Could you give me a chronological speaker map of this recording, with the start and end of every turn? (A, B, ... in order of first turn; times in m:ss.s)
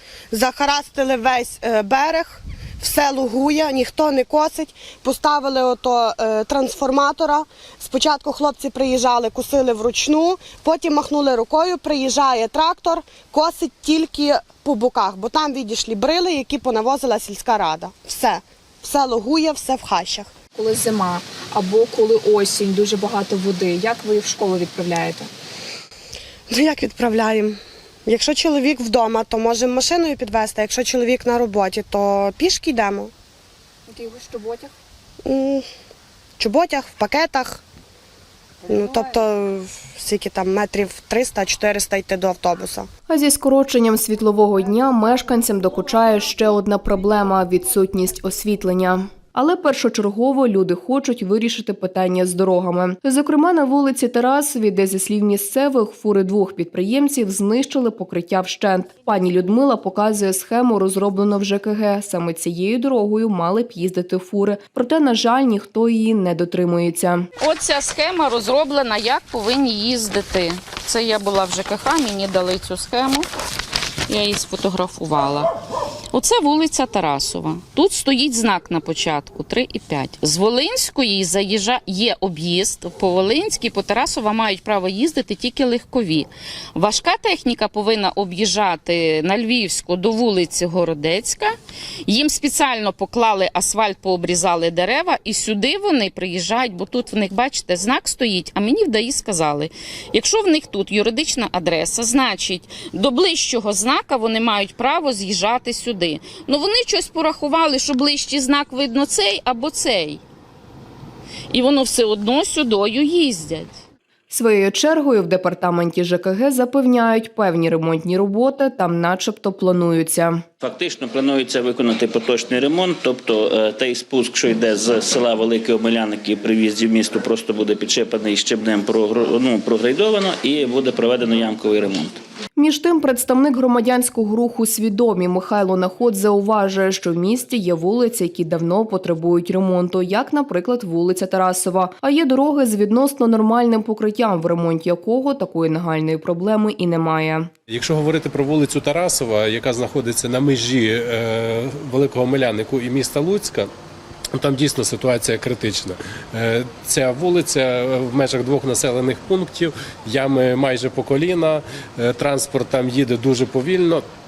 0:00.3-0:20.3 A
0:20.5-0:25.3 B
0:26.5-0:33.1 A
0:33.9-0:34.7 B
0:35.2-0:35.6 A
0:36.4-0:37.6 A
0:38.7-0:42.9 A
0:43.1-1:07.3 C
1:07.4-1:13.3 D
1:14.1-1:15.5 D
1:16.1-1:50.2 D
1:51.5-1:53.8 D
1:54.3-2:00.4 C
2:00.6-2:12.2 E
2:12.6-2:27.5 C
2:27.7-2:33.7 F
2:34.3-2:44.0 F